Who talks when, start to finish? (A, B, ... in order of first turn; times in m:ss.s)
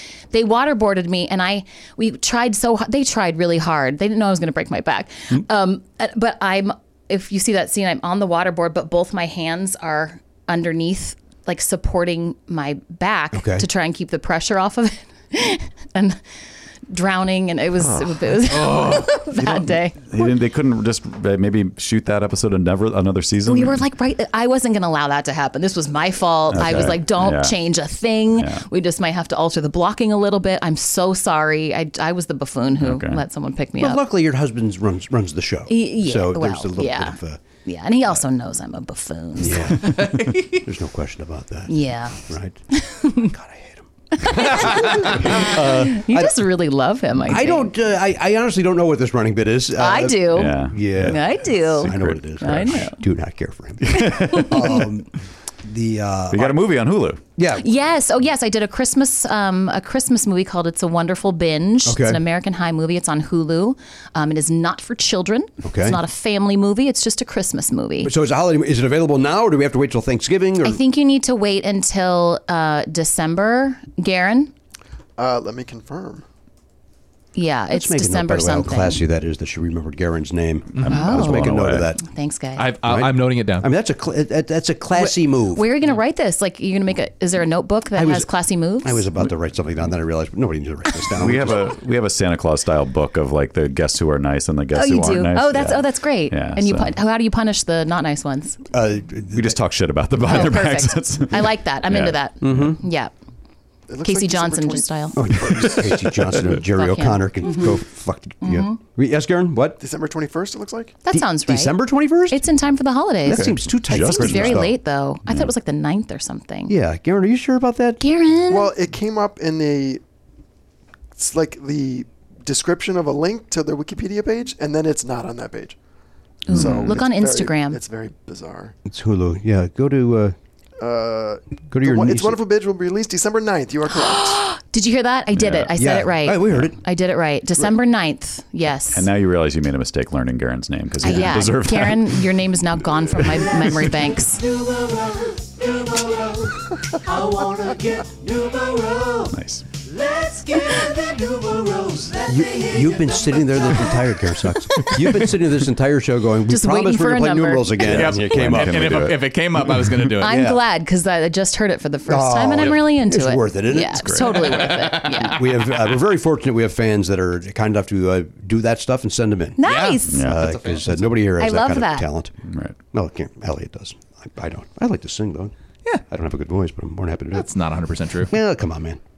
0:00.3-0:16.2 A
0:13.3-0:13.7 B
0:16.9-0:20.3 A
0:18.7-0:19.0 C
0:20.1-0:23.8 D
0:23.4-0:34.0 A
0:26.5-0:27.6 D
0:28.4-0:28.6 D
0:32.8-0:33.2 D
0:33.8-0:37.4 B
0:35.7-0:40.0 A
0:39.4-0:42.6 B
0:39.9-0:40.5 C
0:41.7-0:43.3 A
0:43.1-0:46.4 B
0:44.2-0:47.7 A
0:47.3-0:55.1 B
0:49.8-0:52.9 A
0:50.3-0:51.2 D
0:51.7-0:52.9 D
0:53.9-0:54.5 D
0:53.9-0:54.9 A
0:55.6-0:56.6 B
0:56.3-0:57.2 D
0:57.4-0:57.7 B
0:57.5-1:08.1 A
1:01.8-1:02.2 B
1:05.6-1:06.0 B
1:08.0-1:10.8 B
1:10.6-1:14.5 A
1:15.2-1:16.2 E
1:17.4-1:19.0 A
1:17.7-1:22.0 B
1:20.8-1:21.9 D
1:20.8-1:21.1 C
1:20.9-1:22.7 A
1:22.6-1:23.7 C
1:22.8-1:25.7 B
1:25.0-1:29.1 A
1:28.0-1:28.3 B
1:28.8-1:31.7 B
1:31.2-1:37.0 D
1:34.7-1:38.6 A
1:38.7-1:39.6 B
1:39.3-1:42.2 D
1:40.2-1:43.1 A
1:42.4-1:42.8 B
1:43.9-1:45.9 E
1:44.0-1:45.4 A
1:45.2-1:49.8 B
1:46.6-1:47.8 A
1:48.4-1:48.8 A
1:49.8-1:51.0 E
1:51.0-1:51.8 A
1:51.1-1:52.4 B
1:52.3-1:56.7 A
1:53.2-1:54.8 B
1:53.3-1:54.7 D
1:56.7-1:58.0 B
1:58.0-1:58.7 A
1:58.5-2:00.0 E
2:01.2-2:05.8 E
2:06.5-2:07.8 A
2:06.5-2:08.7 E
2:06.5-2:06.8 D
2:08.9-2:10.4 B
2:10.8-2:14.4 E
2:11.7-2:12.4 B
2:13.9-2:19.1 A
2:15.3-2:15.8 D
2:15.8-2:16.8 B
2:18.9-2:22.3 D
2:21.0-2:24.4 A
2:23.3-2:35.2 F
2:29.3-2:29.6 D
2:32.3-2:39.1 B
2:36.4-2:37.8 A
2:37.8-2:39.3 D
2:37.8-2:40.6 C
2:40.2-2:45.6 A
2:42.1-2:49.6 B
2:44.2-2:45.2 C
2:49.6-2:50.4 A
2:49.6-2:51.2 C
2:50.1-2:50.4 D
2:50.2-2:52.3 B
2:51.4-2:52.1 A
2:52.4-2:52.8 D
2:52.9-2:57.5 B
2:57.3-2:58.4 C
2:58.3-2:59.0 B